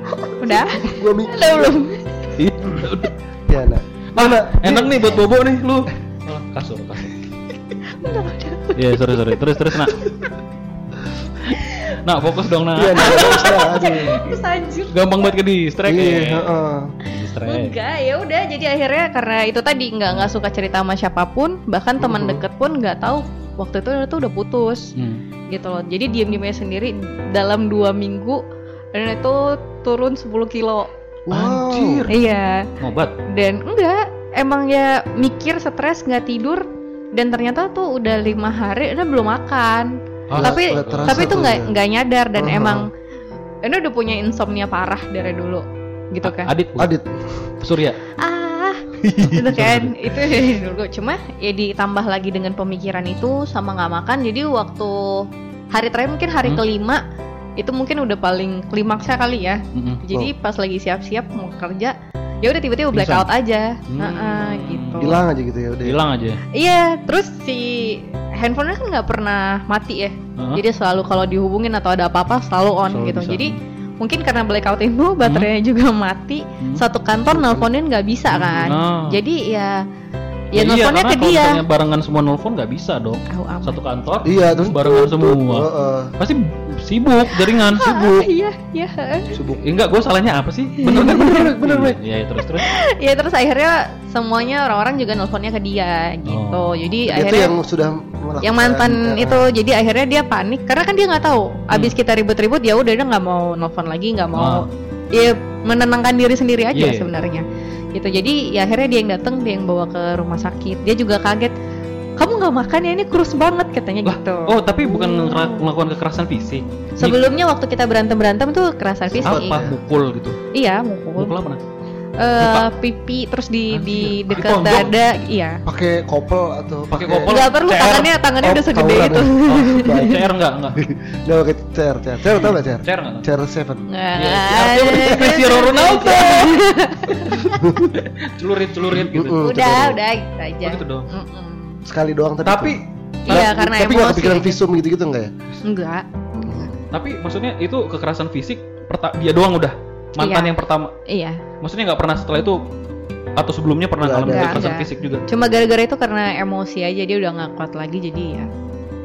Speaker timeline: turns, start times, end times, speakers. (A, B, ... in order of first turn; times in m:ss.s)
0:00.1-0:01.8 A
0:00.4-0:02.3 B
0:02.4-0:03.1 C
0:03.5-0:05.0 A
0:04.1-0:07.2 C
0:07.9-0:09.2 B
0:08.7-0:10.0 C
0:11.4-0:14.0 C
0:11.6-0:11.9 B
0:12.7-0:14.2 A
0:13.0-0:15.0 B
0:14.9-0:17.8 C
0:15.8-0:17.0 A
0:17.4-0:24.9 B
0:22.0-0:22.4 A
0:25.0-0:25.2 C
0:25.5-0:28.4 B
0:28.9-0:30.9 B
0:31.3-0:32.1 A
0:31.3-0:32.2 C
0:32.1-0:32.7 B
0:32.8-0:33.1 C
0:33.3-0:42.9 B
0:40.3-0:41.4 C
0:40.3-0:41.7 A
0:42.4-0:42.8 A
0:43.6-0:46.5 B
0:46.2-0:46.9 C
0:46.8-0:47.4 A
0:47.6-0:48.0 C
0:48.2-0:57.0 B
0:49.1-0:50.3 C
0:57.6-1:05.2 B
0:59.7-1:00.0 C
1:02.9-1:03.3 C
1:03.9-1:05.2 C
1:05.0-1:06.0 A
1:05.8-1:06.4 C
1:06.5-1:19.8 B
1:10.4-1:10.6 C
1:12.9-1:13.6 C
1:15.2-1:15.5 C
1:17.3-1:17.7 A
1:18.3-1:19.2 C
1:20.5-1:21.6 B
1:20.6-1:25.7 C
1:23.3-1:23.8 B
1:24.2-1:26.1 A
1:26.2-1:28.1 C
1:27.4-1:29.4 B
1:29.3-1:29.6 A
1:29.6-1:32.6 C
1:30.8-1:31.2 B
1:31.1-1:32.0 A
1:32.6-1:37.6 B
1:36.3-1:36.9 C
1:37.1-1:39.5 A
1:38.4-1:51.5 B
1:41.7-1:42.0 C
1:44.4-1:44.7 C
1:46.7-1:47.1 C
1:52.2-1:55.6 B
1:54.0-1:57.2 C
1:57.0-1:59.6 B
1:59.1-1:59.8 A
1:59.2-2:00.4 C
2:00.5-2:01.3 B
2:01.2-2:01.6 C
2:02.2-2:05.6 B
2:02.4-2:02.6 C
2:03.7-2:04.9 C
2:05.6-2:07.4 A
2:06.9-2:08.1 C
2:07.3-2:10.1 B
2:08.4-2:13.8 A
2:09.4-2:10.8 C
2:12.8-2:13.3 C
2:13.9-2:17.6 B
2:14.2-2:16.6 C
2:17.3-2:19.4 C
2:17.3-2:17.9 A
2:18.9-2:20.0 A
2:19.3-2:21.8 B
2:20.6-2:21.1 C
2:21.8-2:22.8 A
2:22.4-2:23.5 C
2:23.2-2:24.6 B
2:23.3-2:25.3 A
2:25.6-2:26.7 B
2:26.3-2:26.7 A
2:26.9-2:30.9 C
2:30.2-2:31.4 B
2:31.6-2:32.6 C
2:33.4-2:35.2 C
2:34.0-2:34.6 A
2:34.3-2:38.5 B